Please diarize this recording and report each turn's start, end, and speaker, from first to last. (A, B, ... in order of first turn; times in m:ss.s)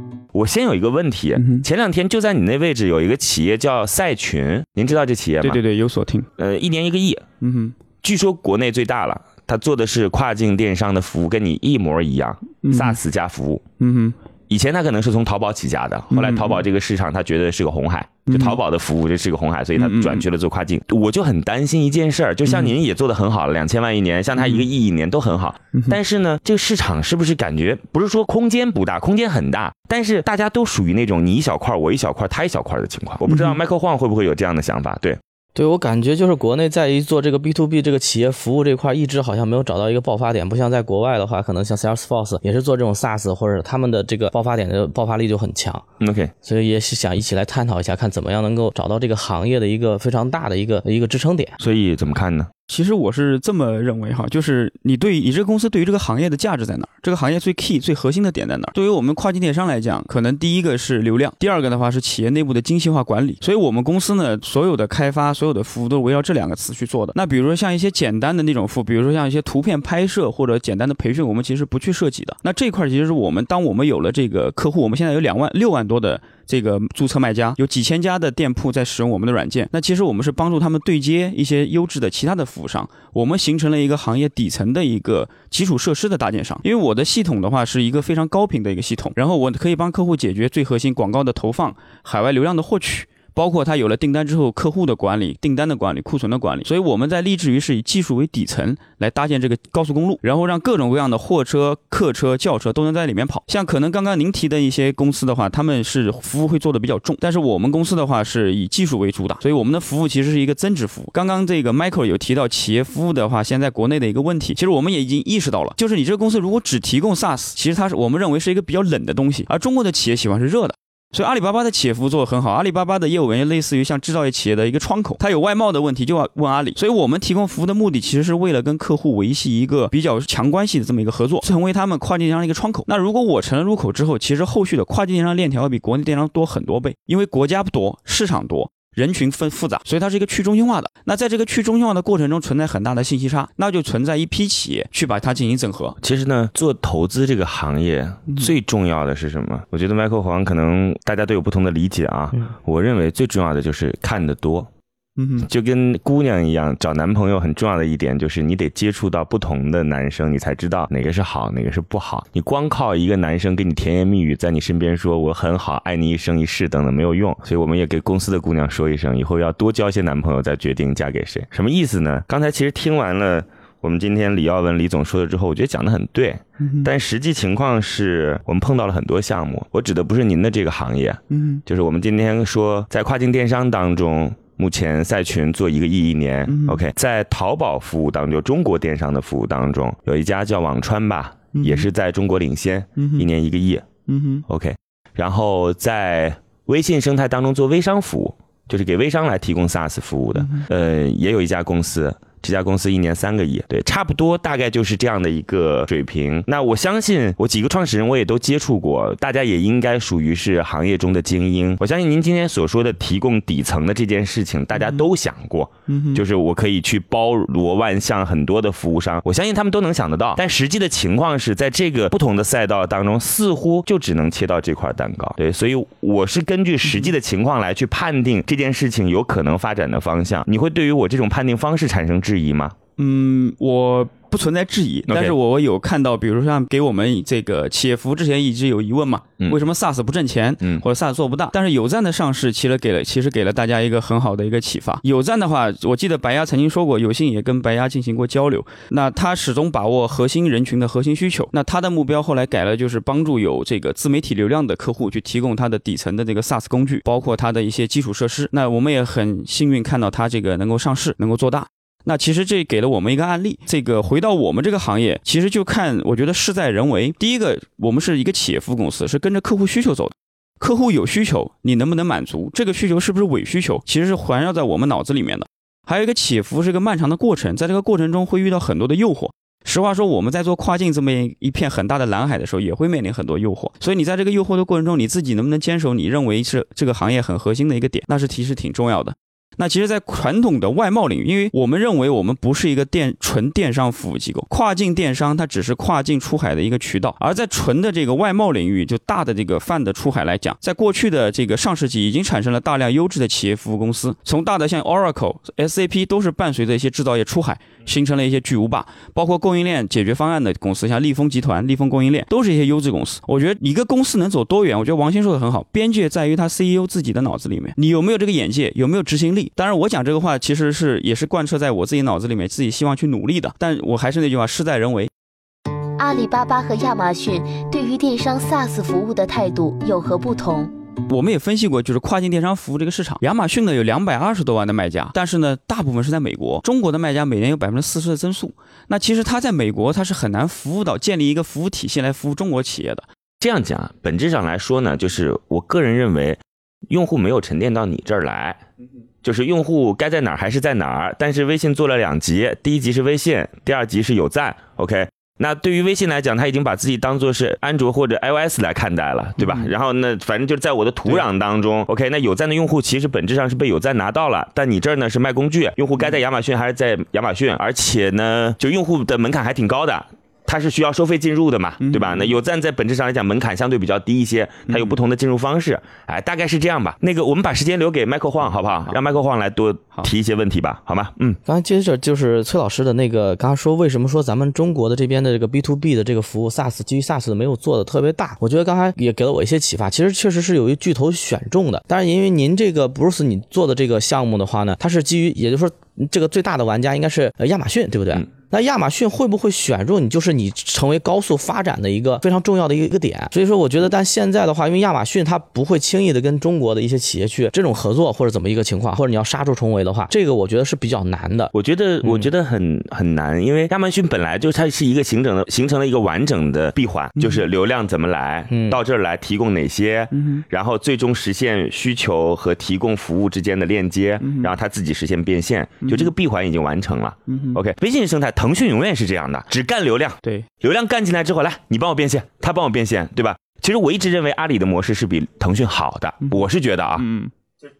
0:00.3-0:05.6 A
0:01.4-0:01.6 B
0:05.4-0:06.3 B
0:06.4-0:07.2 A
0:07.4-0:07.7 B
0:08.0-0:13.6 A
0:12.6-0:13.0 B
0:13.8-0:14.2 B
0:14.5-0:35.2 A
0:16.1-0:16.6 B
0:18.3-0:18.6 B
0:19.8-0:20.2 B
0:22.5-0:22.7 B
0:24.4-0:24.6 B
0:33.3-0:33.6 B
0:35.5-0:45.8 C
0:46.0-0:46.3 A
0:46.4-0:51.6 C
0:51.6-0:52.5 A
0:52.7-2:26.0 B
2:26.0-2:34.7 A
2:35.2-2:35.5 B
2:35.4-3:13.8 A
2:56.6-2:56.9 B
3:01.3-3:01.6 B
3:06.5-3:06.8 B
3:11.6-3:11.9 B
3:13.0-3:13.2 B
3:14.1-3:14.4 B
3:14.5-3:52.8 A
3:35.9-3:36.2 B
3:53.0-5:25.1 B
3:55.1-3:55.3 A
5:26.0-5:30.7 D
5:31.1-5:43.0 B
5:43.4-5:48.6 A
5:49.2-6:21.4 A
5:59.4-5:59.7 B
6:11.8-6:12.3 B
6:14.7-6:14.9 B
6:21.4-6:51.5 C
6:51.5-7:17.1 A
6:57.2-6:57.4 B
6:58.5-6:58.8 C
7:00.1-7:00.4 B
7:04.2-7:04.5 B
7:05.8-7:06.1 B
7:07.3-7:07.6 B
7:17.0-7:17.3 B